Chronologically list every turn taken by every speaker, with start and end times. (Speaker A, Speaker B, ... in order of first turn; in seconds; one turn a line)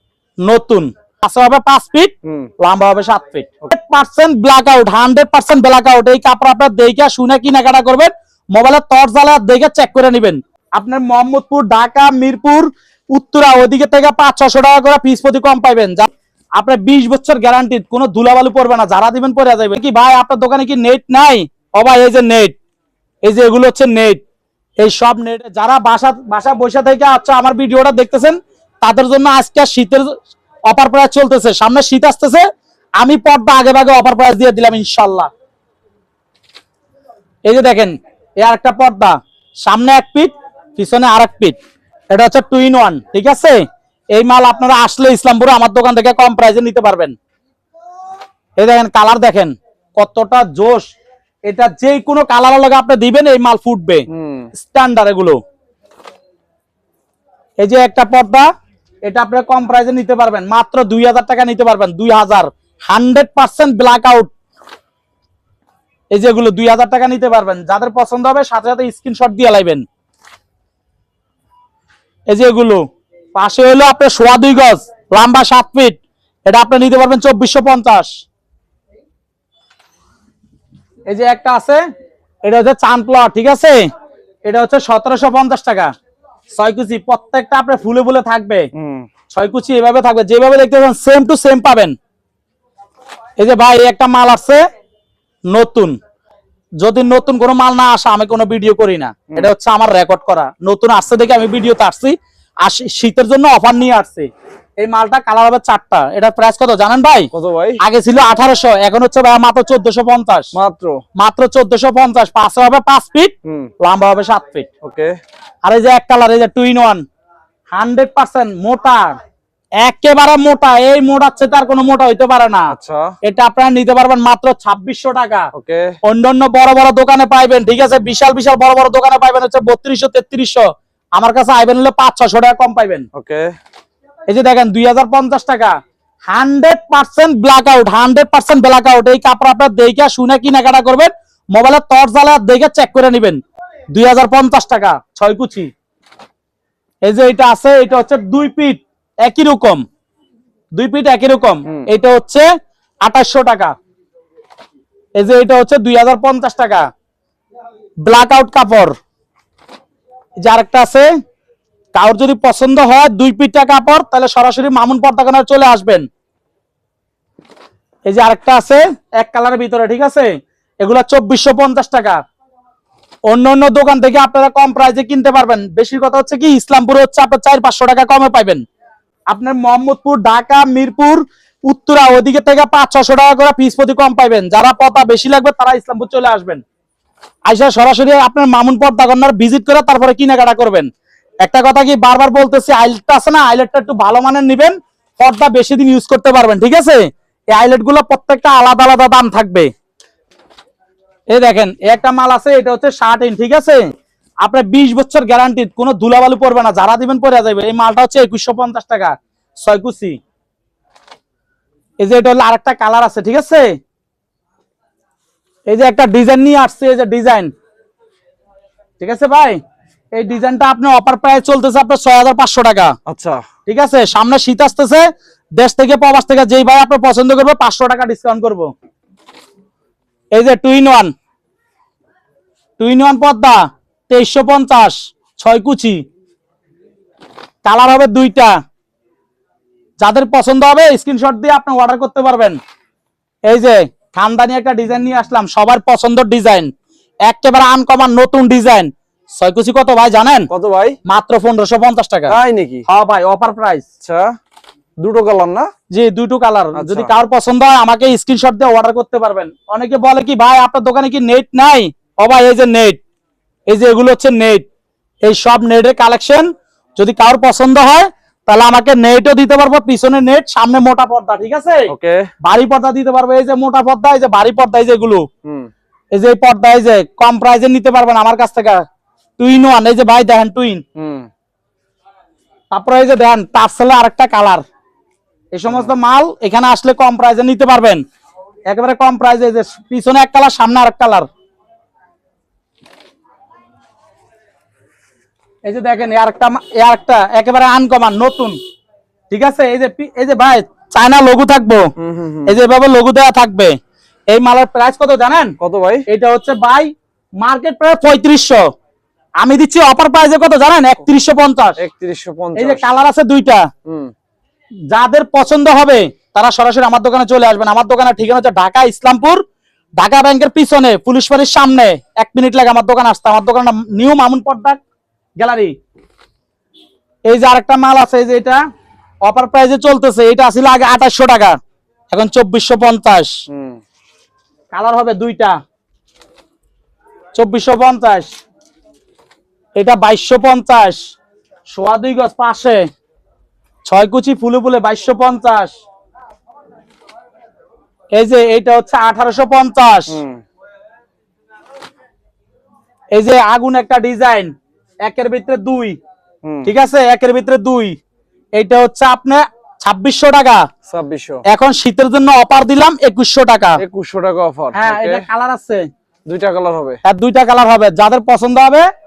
Speaker A: 0.5-22.6
Speaker B: 2.2-2.5
Speaker A: 23.2-24.2
Speaker A: 24.8-30.1
Speaker A: 30.7-32.5
Speaker A: 33.0-35.3
Speaker A: 37.5-41.6
Speaker A: 42.1-43.6
Speaker A: 44.1-47.2
Speaker A: 48.6-50.9
Speaker A: 51.5-55.4
Speaker B: 54.1-54.5
Speaker A: 57.6-58.5
Speaker A: 59.1-64.3
Speaker A: 66.1-69.9
Speaker A: 72.3-72.8
Speaker A: 73.3-78.2
Speaker A: 81.1-81.8
Speaker A: 82.5-83.8
Speaker A: 84.5-85.9
Speaker A: 86.5-88.7
Speaker B: 88.7-89.1
Speaker A: 89.3-92.0
Speaker A: 93.4-94.6
Speaker A: 95.5-96.0
Speaker A: 96.8-104.3
Speaker A: 104.8-110.5
Speaker B: 107.3-107.8
Speaker B: 110.5-111.0
Speaker A: 111.2-114.7
Speaker B: 113.5-113.7
Speaker B: 114.8-115.2
Speaker A: 115.7-117.0
Speaker A: 117.7-119.2
Speaker A: 119.8-122.7
Speaker B: 122.7-123.1
Speaker A: 123.2-125.5
Speaker B: 125.5-126.0
Speaker A: 126.0-130.7
Speaker A: 131.2-133.1
Speaker B: 133.1-133.5
Speaker A: 134.3-135.8
Speaker A: 136.3-143.4
Speaker A: 143.9-145.7
Speaker A: 147.0-149.8
Speaker A: 150.8-152.5
Speaker A: 153.0-153.7
Speaker A: 155.2-156.9
Speaker A: 158.1-158.9
Speaker A: 160.4-161.1
Speaker A: 161.9-166.1
Speaker A: 168.1-172.2
Speaker A: 173.3-178.6
Speaker A: 179.3-186.6
Speaker A: 187.5-190.9
Speaker A: 191.4-199.7
Speaker A: 201.3-203.9
Speaker A: 204.4-210.2
Speaker A: 212.0-213.8
Speaker A: 215.7-217.5
Speaker A: 219.0-219.6
Speaker A: 220.2-222.9
Speaker B: 223.1-223.4
Speaker A: 223.7-228.7
Speaker A: 230.3-231.1
Speaker A: 232.8-236.0
Speaker A: 237.7-238.5
Speaker A: 240.0-242.6
Speaker A: 243.5-246.7
Speaker A: 247.3-250.5
Speaker B: 250.5-251.0
Speaker A: 251.1-252.4
Speaker B: 252.3-252.8
Speaker A: 252.9-253.8
Speaker B: 254.0-254.3
Speaker B: 255.0-255.7
Speaker A: 255.9-263.0
Speaker B: 256.8-257.1
Speaker A: 263.7-264.7
Speaker A: 265.2-271.9
Speaker B: 271.9-272.3
Speaker A: 272.4-275.2
Speaker B: 275.4-275.7
Speaker A: 276.1-278.8
Speaker A: 279.4-280.8
Speaker B: 281.0-281.3
Speaker A: 282.7-284.6
Speaker A: 285.5-288.0
Speaker B: 285.7-285.9
Speaker A: 288.7-291.3
Speaker A: 295.7-298.6
Speaker A: 299.3-301.9
Speaker B: 302.0-302.6
Speaker A: 302.5-303.8
Speaker A: 304.3-305.6
Speaker B: 305.6-306.0
Speaker A: 306.1-306.9
Speaker A: 307.4-308.6
Speaker A: 309.4-311.8
Speaker B: 311.8-312.9
Speaker A: 312.6-313.7
Speaker B: 313.9-314.1
Speaker A: 314.9-319.4
Speaker A: 320.0-324.8
Speaker A: 325.4-325.7
Speaker A: 327.3-328.6
Speaker A: 329.2-331.6
Speaker A: 332.1-333.3
Speaker B: 333.5-333.8
Speaker A: 334.7-335.6
Speaker A: 337.4-338.3
Speaker A: 339.8-341.0
Speaker A: 341.7-342.9
Speaker A: 343.9-345.8
Speaker A: 348.1-350.2
Speaker B: 350.1-350.4
Speaker A: 353.1-354.5
Speaker A: 355.1-356.0
Speaker B: 356.4-356.7
Speaker A: 356.7-358.0
Speaker A: 358.6-360.6
Speaker B: 360.9-361.4
Speaker A: 361.5-363.8
Speaker B: 363.8-365.2
Speaker A: 364.7-365.9
Speaker B: 366.3-367.0
Speaker A: 367.1-368.9